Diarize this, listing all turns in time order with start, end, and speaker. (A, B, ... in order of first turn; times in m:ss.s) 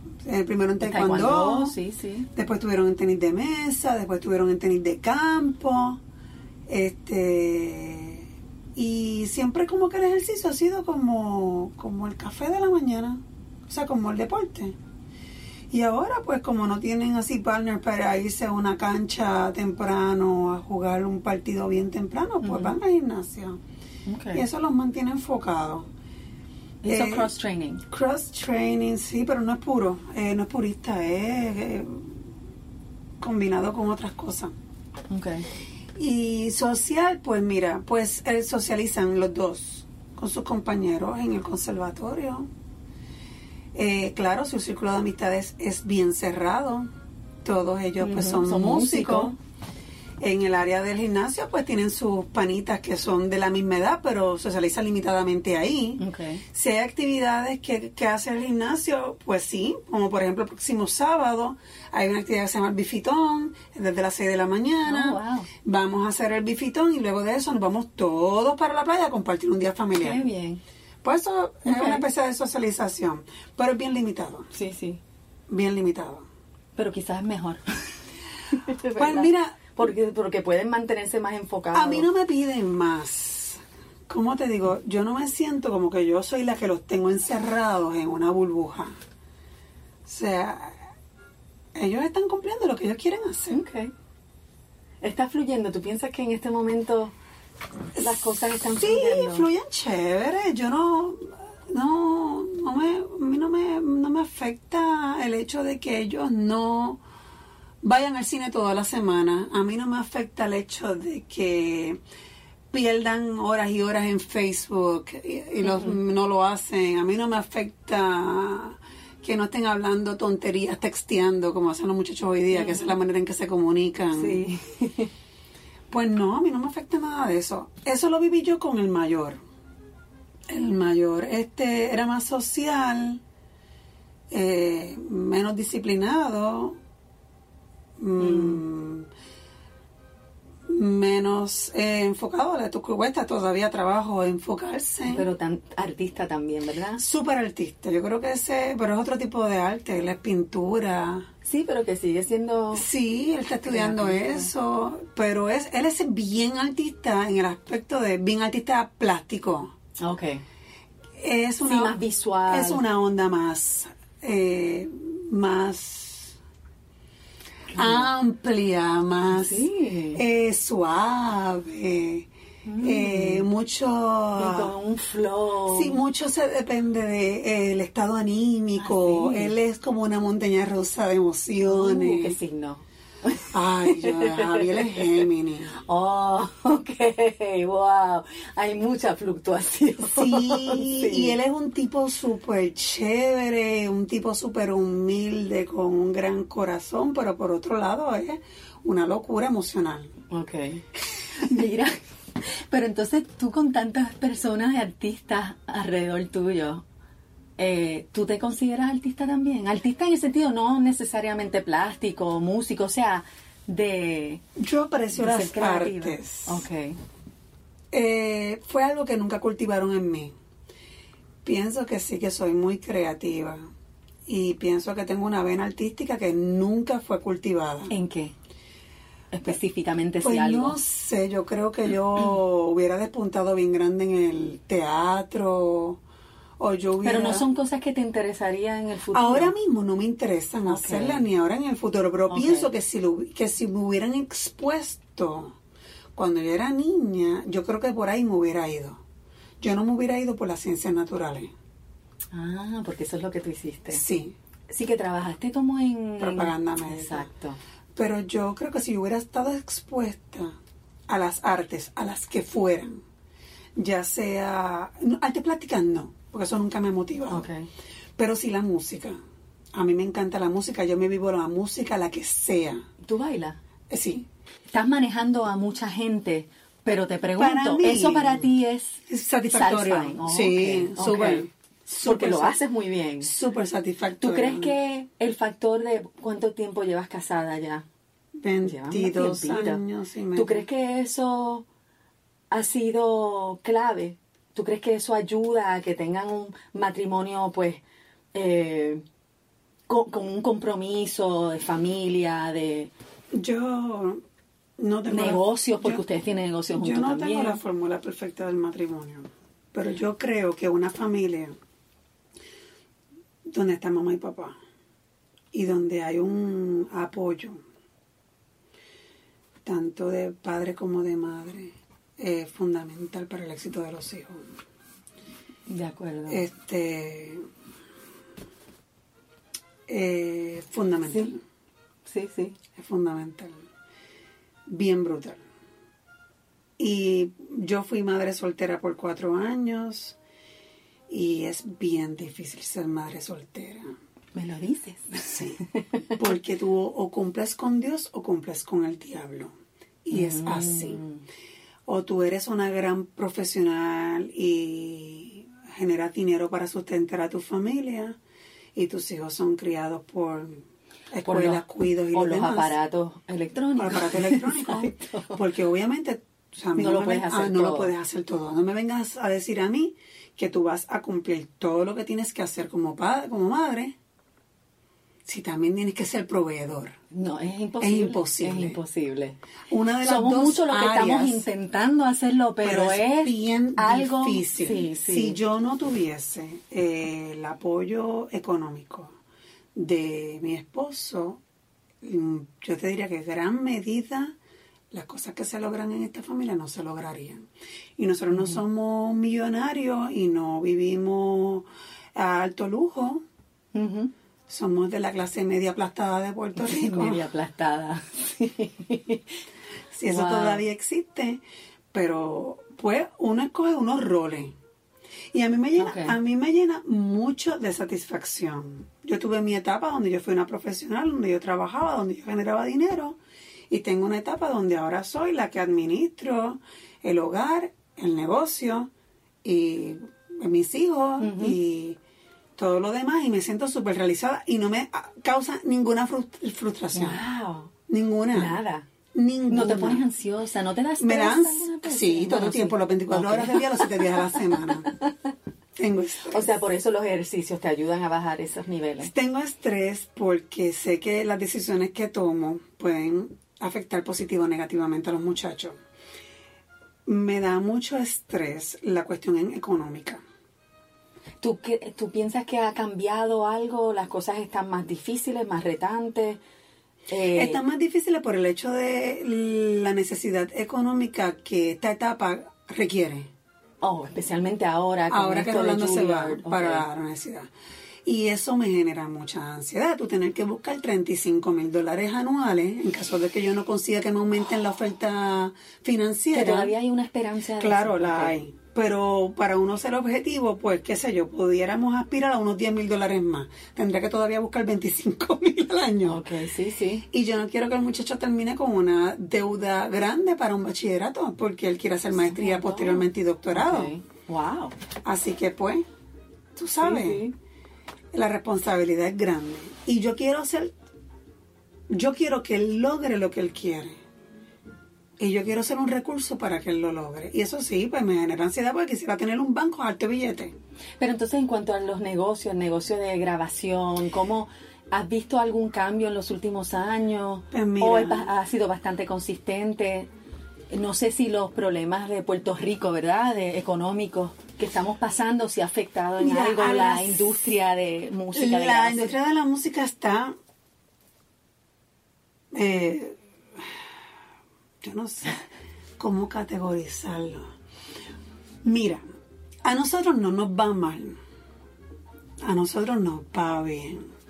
0:00.2-0:01.8 A
0:00.8-0:02.3 B
0:02.3-0:06.0 A
0:06.7-0:08.2 A
0:08.8-0:14.8 A
0:15.7-0:23.6 A
0:22.4-0:22.8 B
0:24.1-0:24.4 B
0:24.3-0:25.9 A
0:26.8-0:27.8 B
0:26.8-0:27.3 A
0:27.9-0:32.2 A
0:33.2-0:34.5 A
0:35.1-0:35.5 B
0:36.0-0:42.5 A
0:43.7-0:46.9 A
0:47.4-0:49.4 A
0:48.0-0:49.4 B
0:50.2-1:10.2 A
0:56.0-0:56.4 B
1:04.8-1:05.5 B
1:10.0-1:10.6 B
1:11.0-1:14.5 A
1:11.6-1:12.0 B
1:14.5-1:15.0 B
1:15.5-1:16.2 A
1:16.8-1:22.1 B
1:19.0-1:19.6 A
1:21.7-1:29.0 A
1:30.0-1:30.8 A
1:31.7-1:33.6 A
1:33.5-1:33.9 B
1:35.0-1:37.1 B
1:38.0-1:39.5 B
1:38.7-1:47.0 A
1:47.8-1:52.0 A
1:52.7-2:04.4 A
1:55.6-1:56.0 B
2:02.5-2:02.9 B
2:04.1-2:05.1 B
2:05.9-2:09.4 A
2:10.5-2:13.2 A
2:14.3-2:16.8 A
2:18.0-2:19.1 A
2:18.2-2:18.6 B
2:20.7-2:25.3 A
2:25.1-2:27.0 B
2:27.0-2:31.3 A
2:31.4-2:32.9 B
2:32.7-2:39.7 A
2:33.6-2:34.5 B
2:40.0-2:40.4 B
2:41.2-2:46.4 A
2:41.6-2:42.8 B
2:47.7-2:48.1 B
2:47.7-2:52.3 A
2:49.3-2:50.2 B
2:52.6-2:53.4 B
2:52.8-2:54.7 A
2:54.4-2:56.0 B
2:55.7-3:02.4 A
2:58.8-2:59.5 B
3:01.6-3:05.1 B
3:03.5-3:05.8 A
3:05.8-3:11.4 B
3:10.0-3:20.1 A
3:20.3-3:26.8 B
3:27.6-3:34.4 B
3:34.6-3:36.6 A
3:35.2-3:37.0 B
3:37.9-3:40.3 A
3:41.4-3:43.7 A
3:44.3-3:47.9 A
3:47.9-3:48.3 B
3:49.3-3:50.8 B
3:50.2-3:56.0 A
3:56.6-3:57.4 A
3:57.0-3:59.5 B
3:59.1-4:05.6 A
4:00.6-4:01.3 B
4:02.3-4:02.7 B
4:06.1-4:09.0 A
4:09.6-4:11.5 A
4:12.3-4:14.0 B
4:13.9-4:14.3 A
4:14.7-4:17.6 B
4:16.2-4:17.3 A
4:18.0-4:20.5 A
4:21.1-4:23.0 A
4:23.8-4:27.5 A
4:27.3-4:27.7 B
4:28.2-4:29.2 A
4:29.7-4:32.8 A
4:33.0-4:33.6 B
4:33.9-4:34.3 A
4:34.7-4:41.5 B
4:37.4-4:38.5 A
4:39.1-4:42.6 A
4:42.0-4:43.3 B
4:43.2-4:44.7 A
4:44.2-4:47.8 B
4:48.4-4:50.6 A
4:48.6-4:49.8 B
4:50.3-4:51.6 B
4:52.5-4:57.8 B
4:58.3-4:59.0 B
4:59.9-5:02.9 B
5:03.3-5:04.2 A
5:04.8-5:06.0 A
5:05.1-5:07.6 B
5:06.7-5:11.6 A
5:13.5-5:14.6 A
5:15.5-5:17.6 A
5:19.6-5:24.4 A
5:25.7-5:26.4 B
5:26.3-5:27.4 A
5:29.9-5:31.4 A
5:31.1-5:31.3 B
5:32.1-5:32.6 B
5:32.7-5:33.6 A
5:34.7-5:35.4 A
5:36.8-5:40.2 A
5:41.1-5:43.9 A
5:44.3-5:46.1 B
5:45.2-5:45.6 A
5:46.2-5:49.5 A
5:50.0-5:51.0 A
5:50.1-5:51.2 B
5:51.9-5:58.2 A
5:58.7-6:02.7 A
6:01.2-6:05.4 B
6:03.8-6:13.9 A
6:06.7-6:07.9 B
6:15.2-6:17.0 A
6:17.1-6:19.4 B
6:17.8-6:18.8 A
6:19.7-6:21.4 A
6:20.0-6:25.4 B
6:22.6-6:29.1 A
6:29.7-6:31.4 A
6:32.0-6:34.4 A
6:34.9-6:43.2 A
6:38.3-6:38.6 B
6:43.7-6:44.1 B
6:44.5-6:47.2 A
6:46.6-6:49.4 B
6:49.9-6:54.5 A
6:50.1-6:50.6 B
6:55.3-7:03.2 A
6:55.8-6:56.2 B
7:03.7-7:08.9 A
7:09.4-7:12.0 A
7:11.2-7:11.6 B
7:12.6-7:17.2 A
7:16.9-7:17.7 B
7:17.9-7:18.6 A
7:18.3-7:18.9 B
7:19.1-7:20.0 A
7:19.5-7:25.3 B
7:21.0-7:24.9 A
7:25.8-7:26.6 A
7:26.3-7:29.1 B
7:29.0-7:35.8 A
7:37.0-7:40.2 A
7:41.4-7:46.4 B
7:47.1-7:47.6 B
7:47.3-7:53.3 A
7:53.8-7:56.8 B
7:55.1-7:57.5 A
7:58.0-8:06.7 A
8:06.3-8:08.4 B
8:07.6-8:16.2 A
8:16.0-8:17.0 B
8:17.1-8:23.9 A
8:22.1-8:24.7 B
8:25.0-8:25.8 A
8:26.6-8:27.2 A
8:26.8-8:27.3 B
8:28.1-8:30.7 A
8:31.9-8:34.0 A
8:35.2-8:40.5 A
8:41.0-8:50.1 B
8:47.5-8:48.3 A
8:50.7-8:59.1 B
8:56.2-8:57.5 A
8:58.3-9:00.3 A
9:02.5-9:03.8 A
9:04.8-9:05.4 A
9:06.0-9:07.5 A
9:08.6-9:09.0 A
9:09.6-9:11.2 A
9:12.4-9:14.0 A